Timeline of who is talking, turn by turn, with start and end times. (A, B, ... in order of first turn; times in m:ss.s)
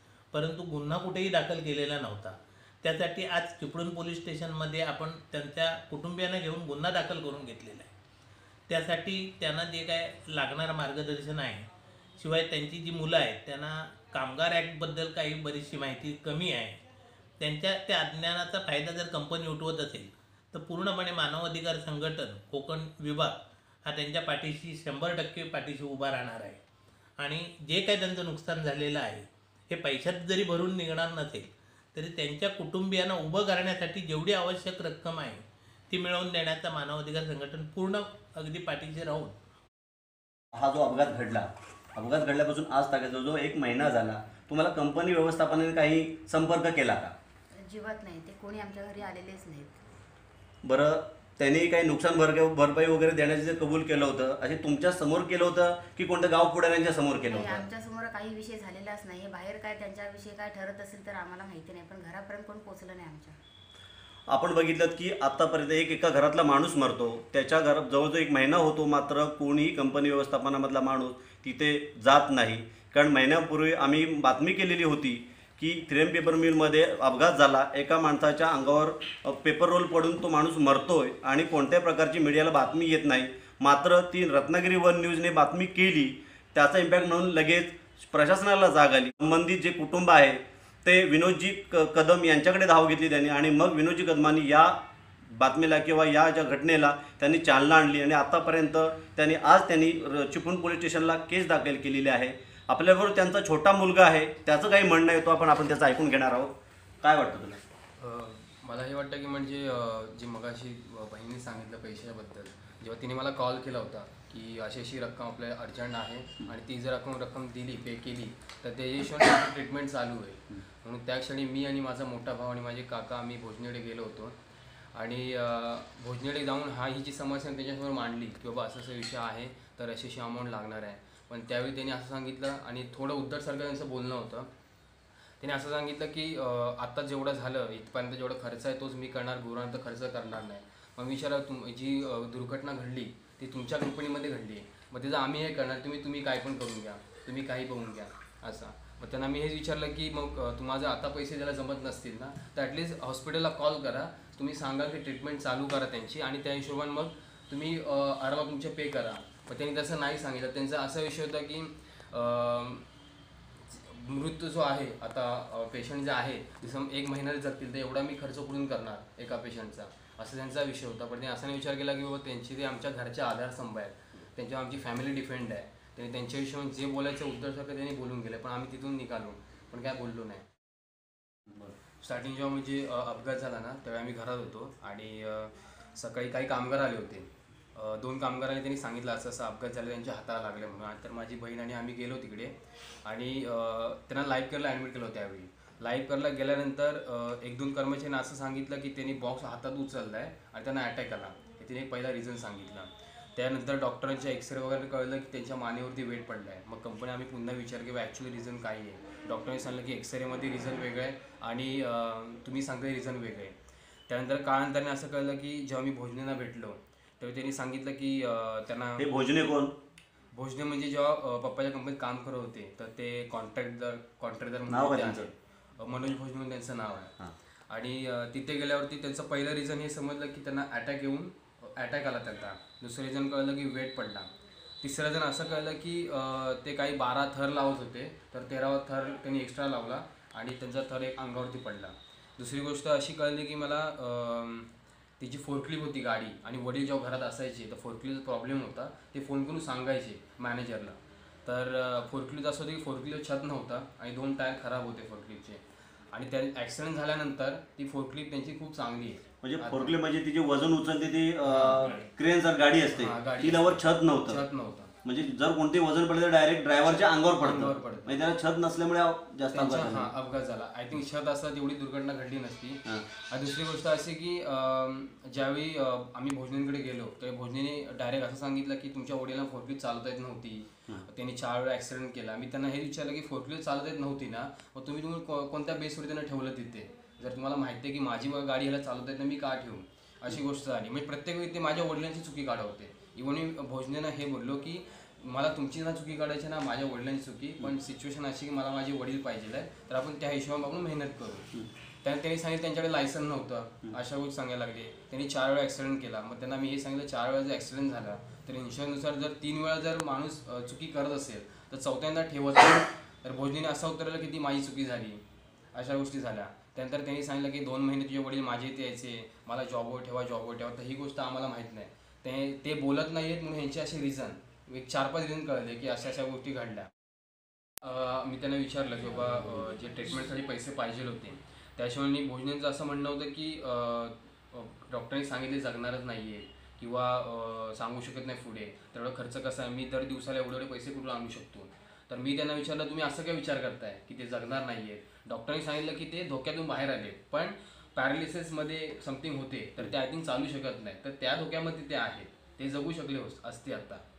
0:00.3-0:07.9 A
0:08.7-0:11.7 A
0:12.2-0:16.8 A
0:17.4-0:23.3 A
0:23.9-0:26.6 A
0:27.2-0:39.3 A
0:40.6-0:47.2 B
0:47.5-0:49.8 C
0:50.6-0:57.7 B
0:57.3-1:03.4 C
1:04.3-1:47.6 B
1:48.0-2:04.4 D
2:04.9-2:14.5 D
2:15.4-2:42.9 D
2:43.7-3:00.5 D
3:02.0-3:33.6 D
3:34.1-3:39.1 D
3:39.0-3:39.8 B
3:40.3-3:47.1 D
3:44.7-3:45.3 B
3:47.7-4:20.0 D
4:19.4-4:24.4 B
4:21.4-4:22.1 D
4:22.9-4:24.9 D
4:25.0-4:30.1 B
4:26.8-4:28.2 D
4:29.5-5:01.5 D
5:02.0-5:15.2 D
5:15.7-5:26.9 D
5:27.8-5:54.0 D